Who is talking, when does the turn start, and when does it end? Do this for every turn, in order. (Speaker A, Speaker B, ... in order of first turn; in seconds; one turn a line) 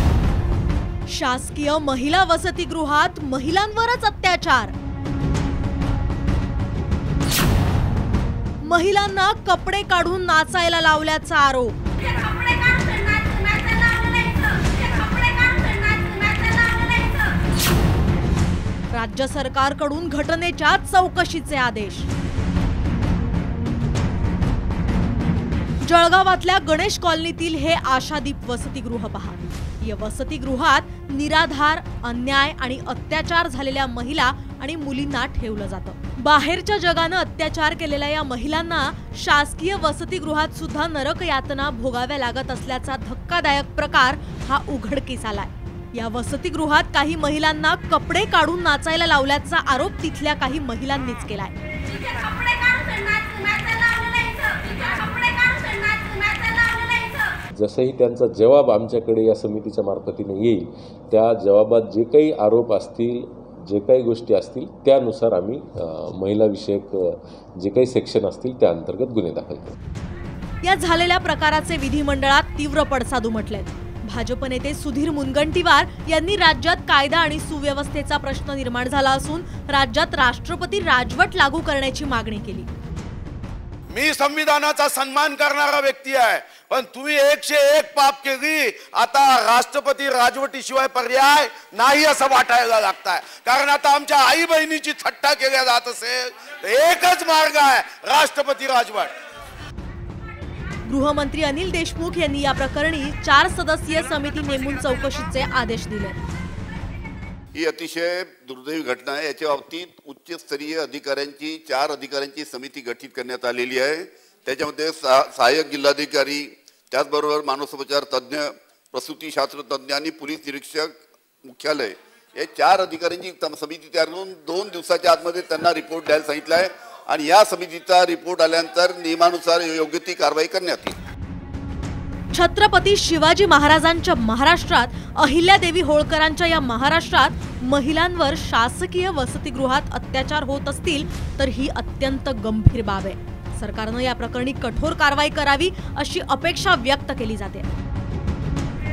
Speaker A: 1.1-4.7
Speaker A: 8.6-11.7
Speaker A: 18.9-22.1
Speaker A: 25.8-51.5
Speaker B: 57.6-69.8
Speaker A: 70.6-82.7
Speaker C: 83.9-99.1
Speaker A: 100.8-106.2
Speaker D: 107.5-130.9
Speaker A: 132.3-147.7